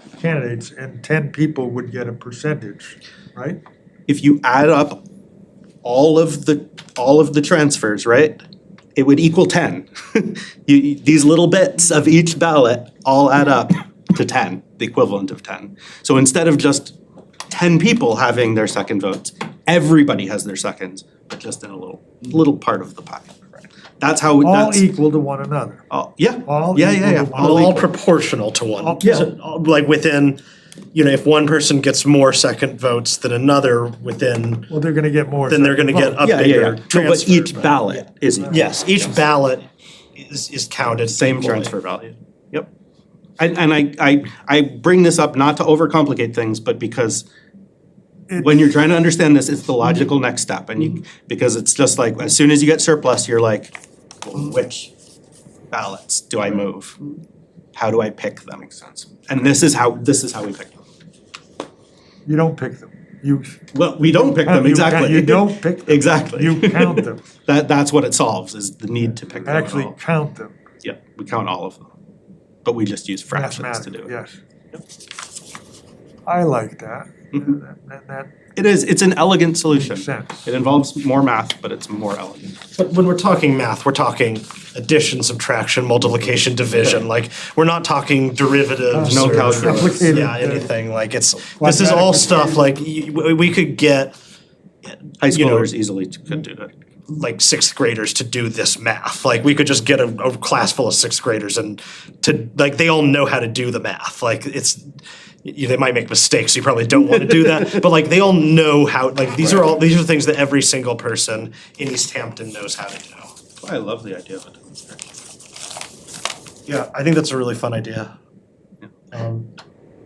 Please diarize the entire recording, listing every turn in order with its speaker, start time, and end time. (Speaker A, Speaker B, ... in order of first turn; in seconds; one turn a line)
Speaker A: 0.2-3.6
Speaker B: 4.1-5.0
Speaker B: 5.8-8.4
Speaker B: 8.9-16.9
Speaker B: 17.5-24.8
Speaker A: 24.4-25.8
Speaker B: 25.9-27.9
Speaker A: 26.4-27.9
Speaker C: 27.3-30.4
Speaker A: 28.8-29.2
Speaker B: 29.0-29.3
Speaker C: 30.9-34.7
Speaker A: 34.7-36.2
Speaker C: 35.5-37.8
Speaker B: 36.2-39.2
Speaker C: 38.5-39.6
Speaker C: 40.2-41.8
Speaker B: 41.1-42.7
Speaker B: 43.4-47.2
Speaker B: 48.4-54.9
Speaker B: 55.7-57.0
Speaker B: 57.7-60.8
Speaker A: 62.2-63.6
Speaker B: 63.7-70.0
Speaker A: 64.4-67.2
Speaker A: 69.4-70.6
Speaker B: 70.8-71.9
Speaker B: 72.6-74.1
Speaker A: 73.3-74.4
Speaker A: 76.2-78.3
Speaker B: 78.5-82.6
Speaker A: 79.7-80.5
Speaker C: 82.7-94.1
Speaker A: 88.9-90.7
Speaker B: 89.0-90.2
Speaker A: 91.5-92.6
Speaker C: 94.9-95.7
Speaker B: 95.2-96.7
Speaker C: 97.1-104.8
Speaker C: 105.4-113.3
Speaker B: 109.4-109.8
Speaker B: 113.6-115.1
Speaker C: 116.7-118.1
Speaker C: 119.1-119.5